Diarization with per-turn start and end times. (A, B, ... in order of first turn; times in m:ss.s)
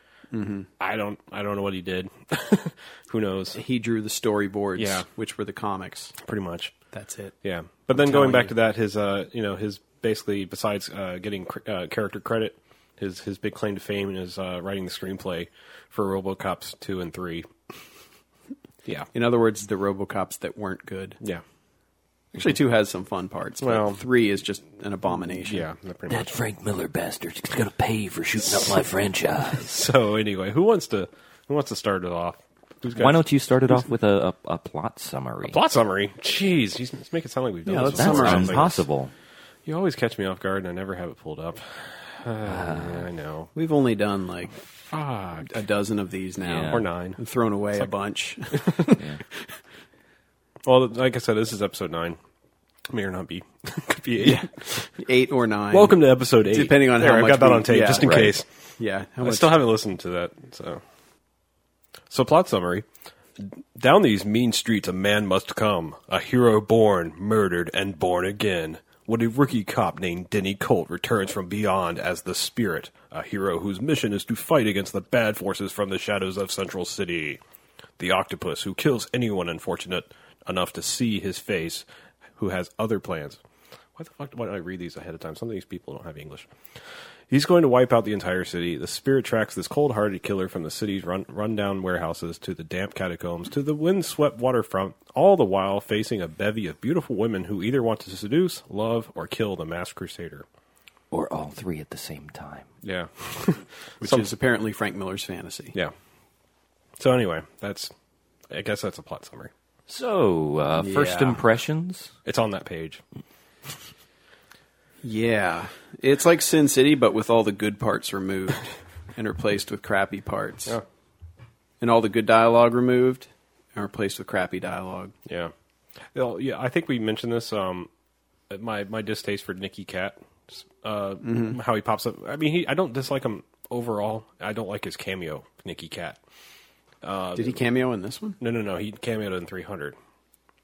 0:00.3-0:00.7 A
0:00.8-0:03.6 B
0:03.5-0:06.2 A
0:04.8-0:05.1 B
0:06.2-0:06.8 B
0:06.9-0:07.4 A
0:07.4-0:17.8 B
0:07.9-0:08.5 A
0:19.1-0:21.2 A
0:22.4-0:25.6 A
0:23.6-0:24.0 B
0:25.4-0:26.3 B
0:26.1-0:29.7 C
0:29.5-0:33.8 B
0:32.9-0:35.6 C
0:35.4-0:38.8 B
0:37.7-0:38.7 A
0:37.8-0:39.1 C
0:39.7-0:43.5 B
0:42.4-0:43.1 C
0:43.6-0:44.7 A
0:44.8-0:45.5 B
0:45.4-0:49.0 A
0:46.4-0:46.9 C
0:46.6-0:47.2 B
0:48.5-0:48.9 B
0:49.0-0:49.2 C
0:50.6-0:52.2 B
0:52.9-0:55.0 B
0:54.2-0:59.6 A
0:55.7-0:58.5 B
0:58.0-0:58.4 C
0:59.2-1:00.8 B
1:02.1-1:02.9 B
1:03.4-1:17.4 B
1:18.0-1:23.4 B
1:24.0-1:26.5 B
1:27.3-1:40.5 B
1:41.1-1:42.7 C
1:42.8-1:44.3 B
1:44.0-1:45.8 A
1:47.0-1:47.9 B
1:48.5-1:49.5 B
1:49.9-1:52.1 C
1:50.8-1:51.4 A
1:52.2-1:53.0 B
1:55.0-2:00.8 A
2:01.8-2:05.1 A
2:05.3-2:05.5 B
2:06.1-2:07.9 B
2:08.5-2:16.2 B
2:11.2-2:11.6 A
2:17.0-2:17.6 B
2:17.4-2:18.4 A
2:18.4-2:20.0 B